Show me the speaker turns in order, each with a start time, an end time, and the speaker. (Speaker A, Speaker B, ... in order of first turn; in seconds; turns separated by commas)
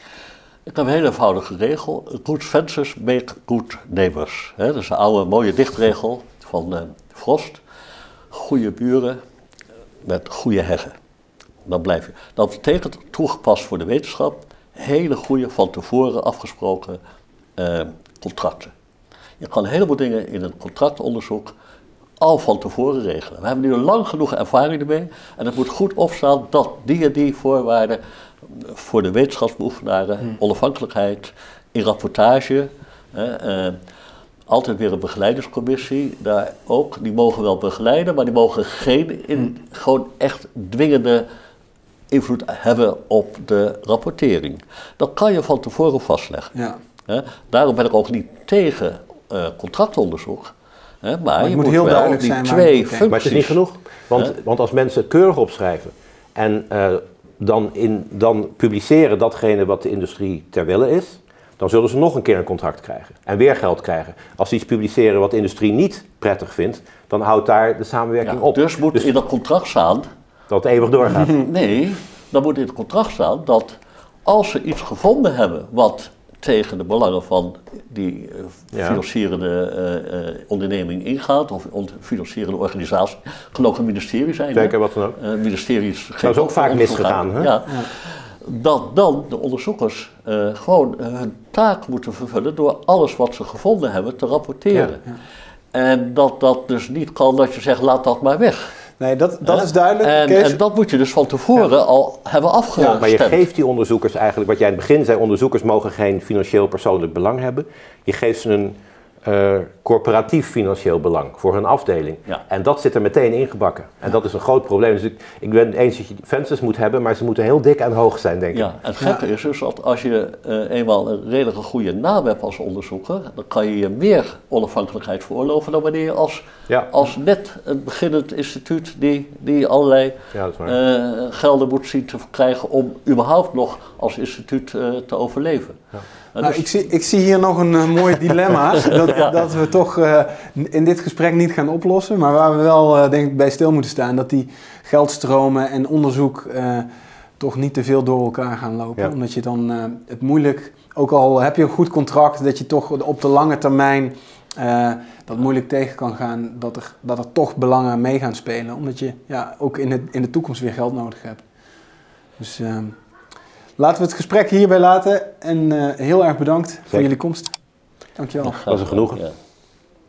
Speaker A: 0.7-7.6, Speaker A: 8.3-9.2, Speaker A: 10.0-10.9, Speaker A: 11.7-17.0, Speaker A: 17.6-18.7, Speaker A: 19.4-21.5, Speaker A: 22.2-33.8, Speaker A: 34.5-41.3, Speaker A: 42.1-46.5, Speaker B: 46.5-46.8, Speaker A: 47.1-50.5, Speaker A: 51.0-53.6, Speaker B: 51.4-53.2, Speaker C: 53.1-69.1, Speaker A: 68.2-70.1, Speaker C: 70.5-71.5, Speaker A: 71.3-95.1, Speaker C: 78.7-79.0, Speaker C: 84.5-85.2, Speaker C: 86.2-87.6, Speaker A: 95.7-98.7, Speaker B: 99.0-100.6, Speaker A: 99.5-103.4, Speaker C: 102.8-118.7, Speaker A: 118.5-135.8, Speaker C: 130.3-130.8, Speaker A: 136.3-136.7, Speaker B: 136.4-146.9, Speaker A: 138.9-139.3, Speaker B: 147.4-161.4, Speaker B: 162.4-163.0, Speaker B: 163.8-167.5, Speaker B: 168.2-168.6, Speaker A: 168.5-169.3, Speaker C: 168.7-169.2